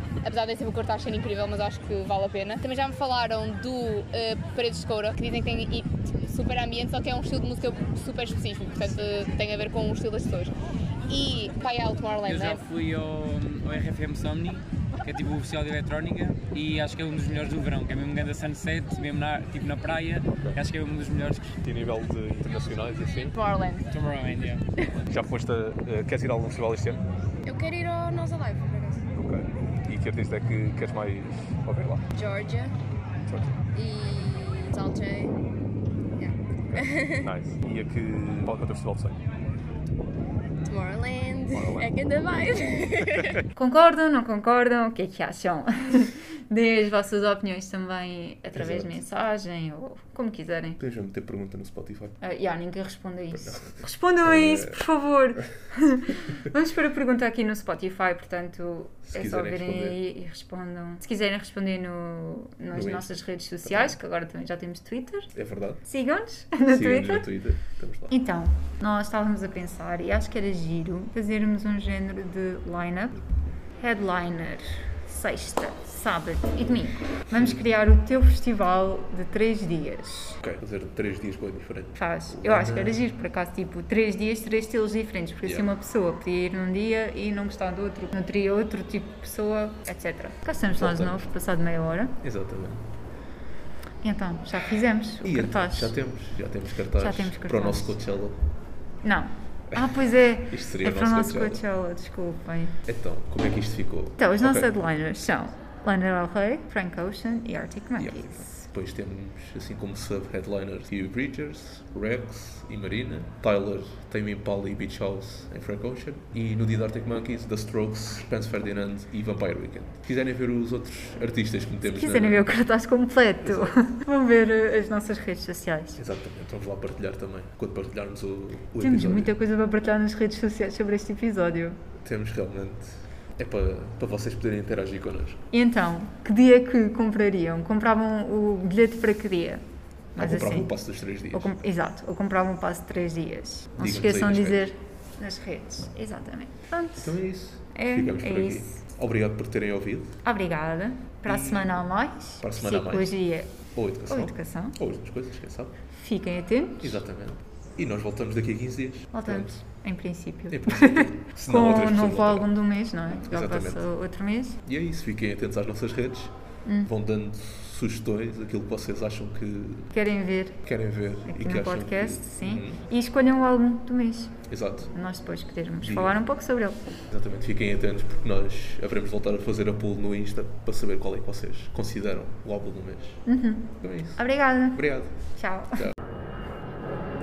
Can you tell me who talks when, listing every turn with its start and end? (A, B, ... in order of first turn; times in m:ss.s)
0:00.2-0:10.6 A
0:11.1-0:12.6 A
0:12.2-0:21.5 B
0:20.3-0:20.6 C
0:21.6-0:23.3 C
0:23.4-0:23.8 A
0:23.6-0:23.8 D
0:23.9-0:24.6 B
0:25.0-0:27.1 C
0:27.4-0:29.0 D
0:29.1-0:32.0 C
0:32.1-0:32.8 D
0:33.2-0:33.5 C
0:33.7-0:35.4 D
0:36.2-0:37.3 D
0:36.7-0:39.3 C
0:40.7-0:43.3 D
0:41.5-0:41.9 C
0:43.6-0:50.8 E
0:48.5-0:49.0 F
0:50.8-0:52.2 F
0:52.2-1:05.3 E
0:53.3-0:54.9 F
0:59.1-1:00.0 F
1:02.7-1:04.0 F
1:05.3-1:05.8 F
1:05.8-1:07.3 E
1:06.7-1:08.1 F
1:08.1-1:13.2 E
1:13.8-1:20.4 E
1:17.3-1:17.6 F
1:20.4-1:23.1 F
1:22.0-1:32.2 E
1:25.4-1:25.7 F
1:30.7-1:31.3 F
1:32.2-1:32.9 F
1:34.0-1:35.9 E
1:35.2-1:38.4 F
1:37.0-1:38.0 E
1:39.0-1:42.8 E
1:39.7-1:41.6 F
1:42.9-1:44.7 F
1:44.2-1:48.7 E
1:48.0-2:02.5 F
2:01.8-2:06.0 E
2:03.4-2:03.8 F
2:06.0-2:09.4 F
2:08.8-2:11.8 E
2:12.0-2:15.5 F
2:15.5-2:19.6 E
2:20.2-2:20.7 E
2:20.2-2:21.6 F
2:21.3-2:27.2 E
2:23.8-2:24.7 F
2:27.0-2:30.2 F
2:27.7-2:28.8 E
2:30.2-2:33.6 E
2:31.3-2:31.8 F
2:32.4-2:35.8 F
2:34.1-2:34.8 E
2:35.9-2:37.0 E
2:36.8-2:39.6 F
2:39.1-2:44.6 E
2:40.5-2:42.5 F
2:43.1-2:43.8 F
2:44.6-2:49.9 F
2:46.7-2:46.9 E
2:49.9-2:50.6 E
2:50.6-2:52.8 F
2:51.3-2:54.4 E
2:54.5-2:54.9 F
2:54.9-2:56.8 E
2:55.8-2:56.2 F
2:57.1-3:03.2 F
3:03.3-3:05.9 E
3:03.8-3:05.2 F